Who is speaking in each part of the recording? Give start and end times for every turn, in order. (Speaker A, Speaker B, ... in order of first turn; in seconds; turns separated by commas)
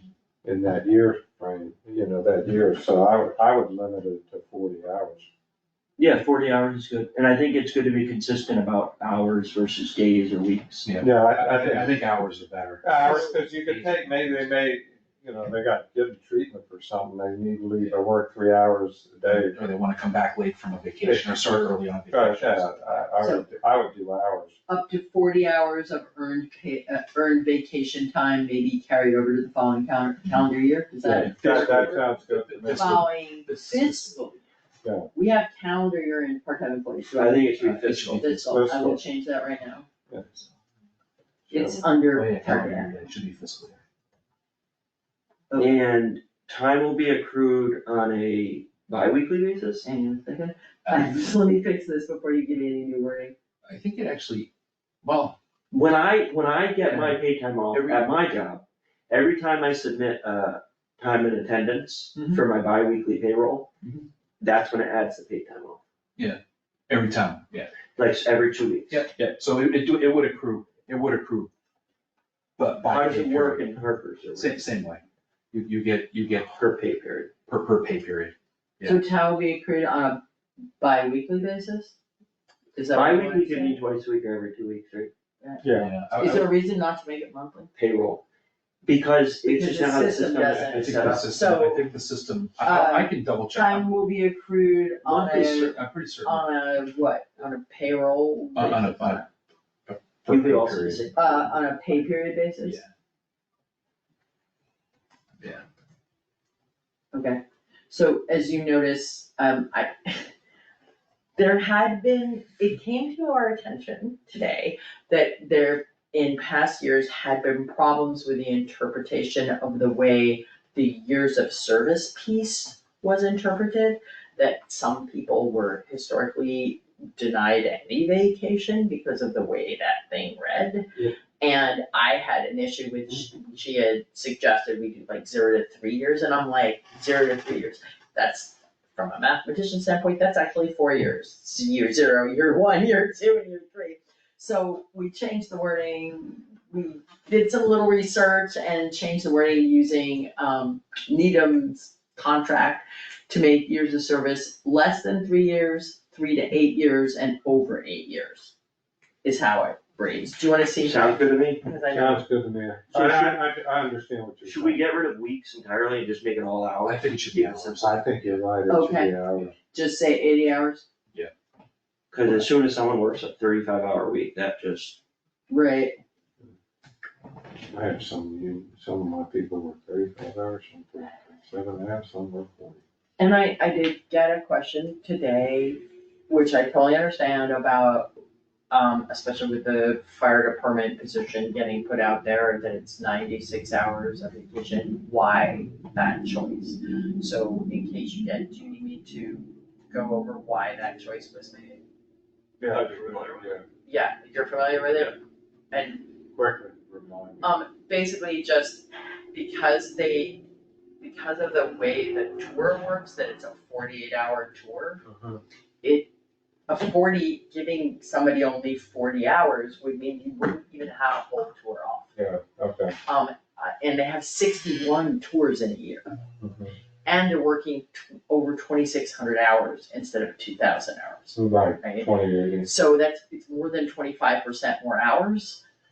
Speaker A: 0.4-5.3, Speaker B: 6.0-10.9, Speaker C: 10.8-14.5, Speaker A: 11.0-12.0, Speaker A: 12.8-19.6, Speaker C: 19.3-23.1, Speaker A: 21.0-24.6, Speaker D: 23.2-23.5, Speaker D: 24.7-32.0, Speaker C: 31.1-34.2, Speaker A: 31.4-33.1, Speaker D: 32.7-34.5, Speaker A: 34.8-35.1, Speaker D: 35.1-39.9, Speaker B: 37.2-38.3, Speaker C: 37.6-38.5, Speaker A: 38.5-39.0, Speaker D: 41.5-42.9, Speaker A: 41.5-41.8, Speaker C: 42.1-43.8, Speaker B: 45.5-49.9, Speaker D: 49.8-53.4, Speaker C: 50.9-51.2, Speaker C: 53.6-54.5, Speaker C: 55.0-55.4, Speaker B: 55.7-63.7, Speaker C: 56.8-57.2, Speaker C: 57.7-58.1, Speaker C: 62.1-62.4, Speaker C: 63.8-64.1, Speaker B: 64.4-65.8, Speaker C: 66.2-67.7, Speaker B: 68.0-69.4, Speaker C: 68.9-71.5, Speaker C: 72.6-73.7, Speaker B: 72.8-74.6, Speaker C: 74.3-76.5, Speaker B: 76.5-77.3, Speaker C: 77.5-79.0, Speaker D: 78.8-80.2, Speaker D: 80.8-81.9, Speaker D: 82.8-83.8, Speaker B: 82.9-85.1, Speaker D: 85.4-87.7, Speaker A: 85.6-86.0, Speaker C: 85.7-86.5, Speaker B: 87.8-88.2, Speaker B: 88.8-91.3, Speaker D: 89.5-91.8, Speaker C: 90.6-94.0, Speaker D: 92.6-99.3, Speaker C: 95.0-96.4, Speaker C: 98.5-99.2, Speaker C: 99.9-101.0, Speaker B: 100.3-101.8, Speaker D: 101.2-102.8, Speaker C: 102.6-102.9, Speaker D: 107.1-110.3, Speaker D: 111.4-158.5, Speaker D: 159.2-162.2, Speaker B: 160.8-161.6, Speaker A: 161.9-164.8, Speaker B: 162.9-163.4, Speaker B: 164.4-167.8, Speaker C: 166.8-168.3, Speaker A: 167.8-169.5, Speaker D: 168.7-169.2, Speaker D: 169.7-170.9, Speaker B: 172.1-175.0, Speaker D: 175.5-176.0, Speaker A: 177.7-182.8, Speaker D: 183.2-188.1, Speaker D: 188.7-201.8, Speaker A: 202.6-203.6, Speaker B: 202.6-203.6, Speaker D: 203.8-205.2, Speaker D: 205.7-206.1, Speaker A: 206.3-207.5, Speaker D: 207.4-210.4, Speaker D: 211.0-215.0, Speaker A: 215.1-215.4, Speaker D: 215.8-216.1, Speaker D: 216.7-222.1, Speaker A: 222.2-223.0, Speaker D: 223.1-226.2, Speaker A: 226.4-226.7, Speaker D: 227.1-232.1, Speaker A: 231.4-232.7, Speaker D: 232.6-235.6